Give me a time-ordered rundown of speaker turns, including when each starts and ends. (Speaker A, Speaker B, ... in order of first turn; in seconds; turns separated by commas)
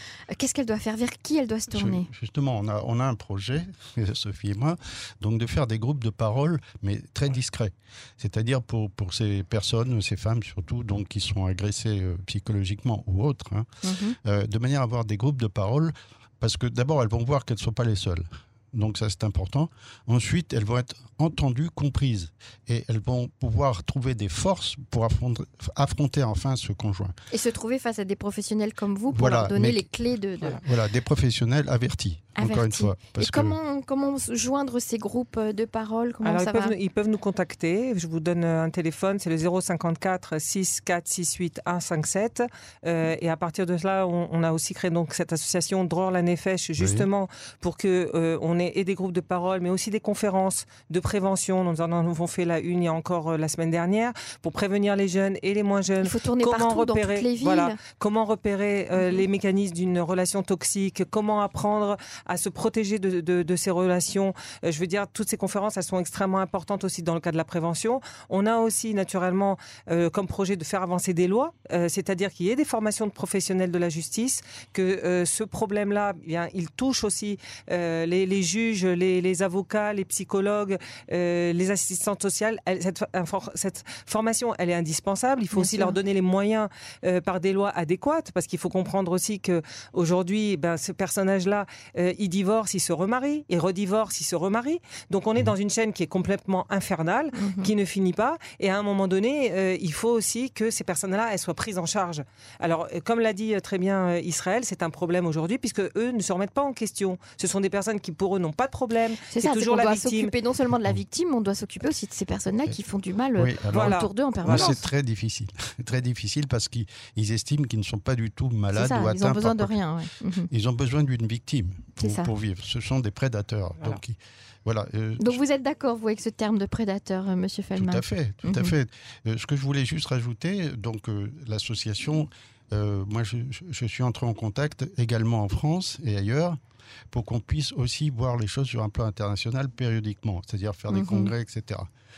Speaker A: 0.3-2.1, Speaker B: 1.7-13.7, Speaker A: 13.8-14.2, Speaker B: 14.2-27.1, Speaker A: 27.3-30.6, Speaker B: 29.1-29.9, Speaker B: 30.4-33.6, Speaker A: 32.4-36.7, Speaker C: 36.2-110.3, Speaker B: 46.8-47.1, Speaker A: 56.0-57.8, Speaker A: 85.5-86.0, Speaker A: 97.4-97.7, Speaker A: 109.3-114.8, Speaker B: 113.4-119.8, Speaker C: 113.7-114.8, Speaker A: 118.7-120.5, Speaker B: 120.5-125.4, Speaker A: 122.0-122.3, Speaker A: 125.2-128.7, Speaker B: 127.8-136.6, Speaker B: 137.1-141.9, Speaker A: 140.9-141.3